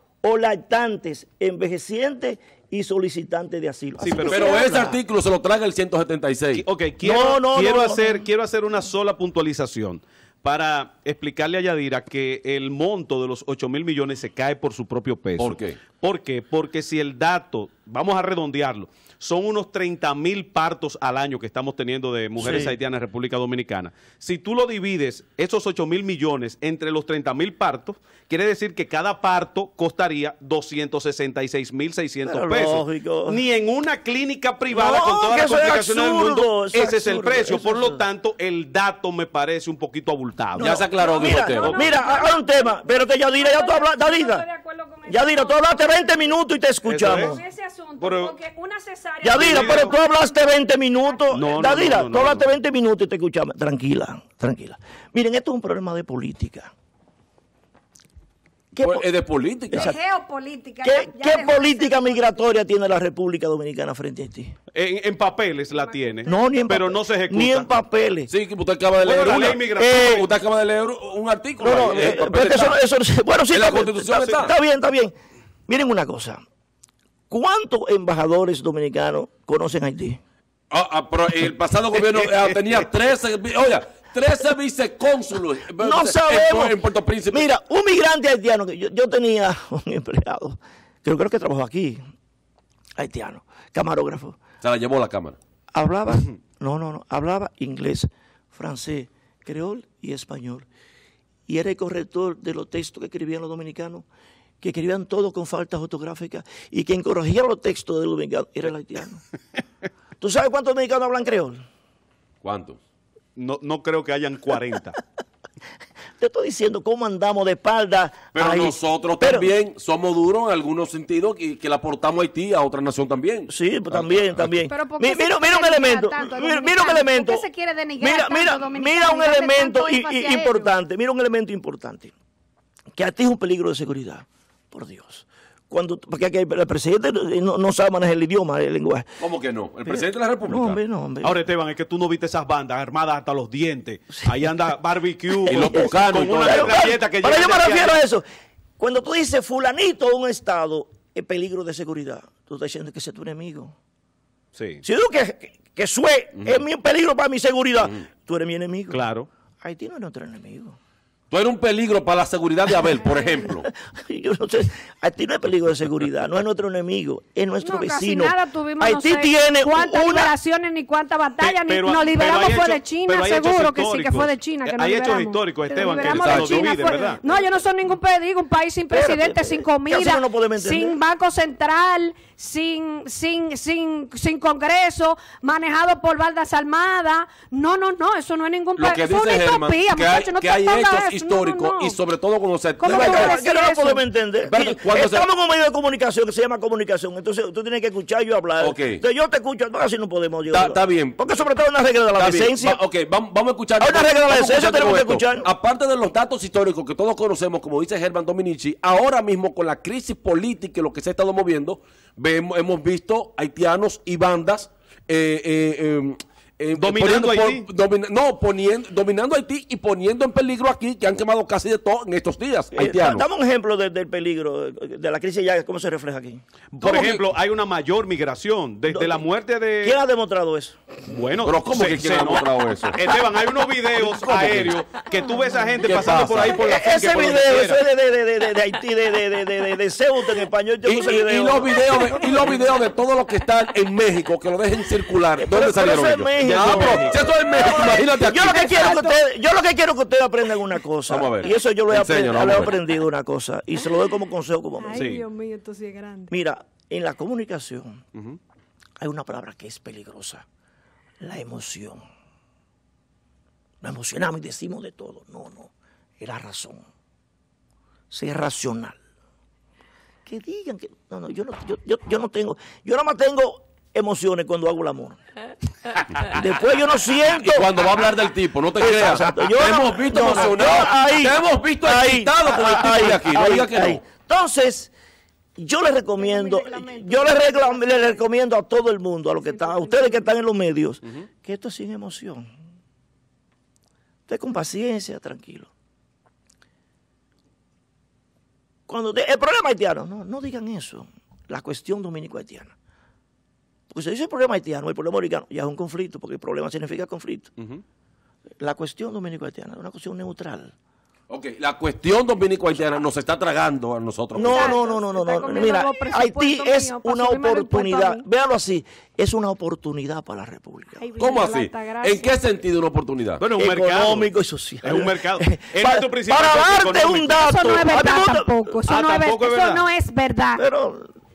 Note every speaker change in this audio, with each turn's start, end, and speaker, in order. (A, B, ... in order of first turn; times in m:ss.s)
0:00.2-0:05.0 A
0:04.0-0:04.6 B
0:04.2-0:06.6 C
0:06.5-0:41.8 B
0:07.0-0:08.2 A
0:15.4-0:15.8 C
0:22.4-0:22.8 A
0:32.2-0:33.4 A
0:34.7-0:38.0 A
0:40.6-0:44.4 A
0:40.6-0:41.9 C
0:41.2-0:46.3 D
0:45.1-0:47.4 A
0:46.8-0:47.4 B
0:47.0-0:50.3 D
0:48.0-0:48.3 B
0:49.2-0:56.7 A
0:49.3-0:49.9 B
0:51.3-0:52.5 B
0:58.7-0:59.0 A
0:58.8-1:00.0 C
0:59.7-1:00.0 A
0:59.7-1:02.3 D
1:00.8-1:04.5 A
1:04.7-1:07.7 B
1:05.8-1:06.5 D
1:06.2-1:08.3 A
1:08.3-1:12.8 C
1:09.0-1:10.3 B
1:09.4-1:10.3 A
1:11.6-1:15.1 A
1:11.8-1:12.1 B
1:13.5-1:14.5 C
1:14.2-1:14.4 B
1:15.7-1:16.4 A
1:17.3-1:20.2 A
1:20.7-1:27.4 C
1:25.8-1:26.8 A
1:27.3-1:32.0 A
1:33.0-1:34.4 A
1:34.6-1:35.4 C
1:35.7-1:40.7 A
1:41.5-1:44.1 A
1:44.6-1:49.2 A
1:50.2-1:51.6 A
1:52.4-1:52.8 C
1:53.4-1:55.0 B
1:56.2-1:59.5 A
1:58.3-2:04.5 C
2:03.5-2:07.4 A
2:04.7-2:10.7 D
2:08.0-2:12.1 A
2:12.9-2:19.1 A
2:19.2-2:20.8 C
2:19.9-2:21.4 A
2:21.2-2:28.0 B
2:25.4-2:28.2 A
2:25.5-2:26.8 C
2:28.8-2:33.7 A
2:34.6-2:34.8 B
2:34.8-2:39.0 A
2:38.9-2:39.3 B
2:39.6-2:40.8 A
2:41.3-2:43.7 C
2:42.7-2:50.3 A
2:47.6-3:12.0 D
2:51.4-2:57.2 B
2:56.0-2:56.7 C
2:58.9-3:01.0 A
3:08.8-3:13.4 C
3:12.8-3:14.0 D
3:12.9-3:22.8 A
3:14.5-3:15.2 C
3:18.6-3:19.0 C
3:20.5-3:21.2 C
3:22.2-3:43.2 C
3:23.8-3:25.5 A
3:36.8-3:37.7 B
3:42.8-3:46.4 A
3:46.7-3:50.0 B
3:46.8-3:47.2 C
3:48.9-3:49.2 A
3:49.8-3:50.8 A
3:51.1-3:57.8 B
3:51.4-3:53.0 C
3:54.0-3:54.7 C
3:54.3-3:54.6 A
3:55.8-3:56.6 C
3:56.6-4:02.6 A
4:00.8-4:09.0 C
4:05.4-4:15.1 A
4:06.4-4:07.4 B
4:08.2-4:09.2 D
4:11.1-4:12.7 C
4:14.8-4:16.3 D
4:15.0-4:15.2 B
4:16.3-4:18.0 A
4:19.0-4:20.4 A
4:21.2-4:22.0 A
4:23.8-4:26.8 A
4:28.1-4:29.0 A
4:30.2-4:35.2 A
4:36.2-4:38.1 A
4:37.3-4:44.0 C
4:38.8-4:44.9 A
4:45.6-4:52.5 A
4:46.2-4:48.2 D
4:49.4-4:50.2 D
4:54.3-4:55.7 A
4:58.9-5:02.7 A
5:03.9-5:07.5 A
5:08.6-5:10.7 A
5:11.3-5:14.8 C
5:14.3-5:21.0 A
5:14.4-5:18.2 D
5:21.0-5:22.3 D
5:21.2-5:23.4 C
5:23.4-5:24.3 B
5:23.6-5:28.5 A
5:24.8-5:27.5 B
5:27.4-5:30.6 D
5:28.9-5:29.8 B
5:30.6-5:31.1 A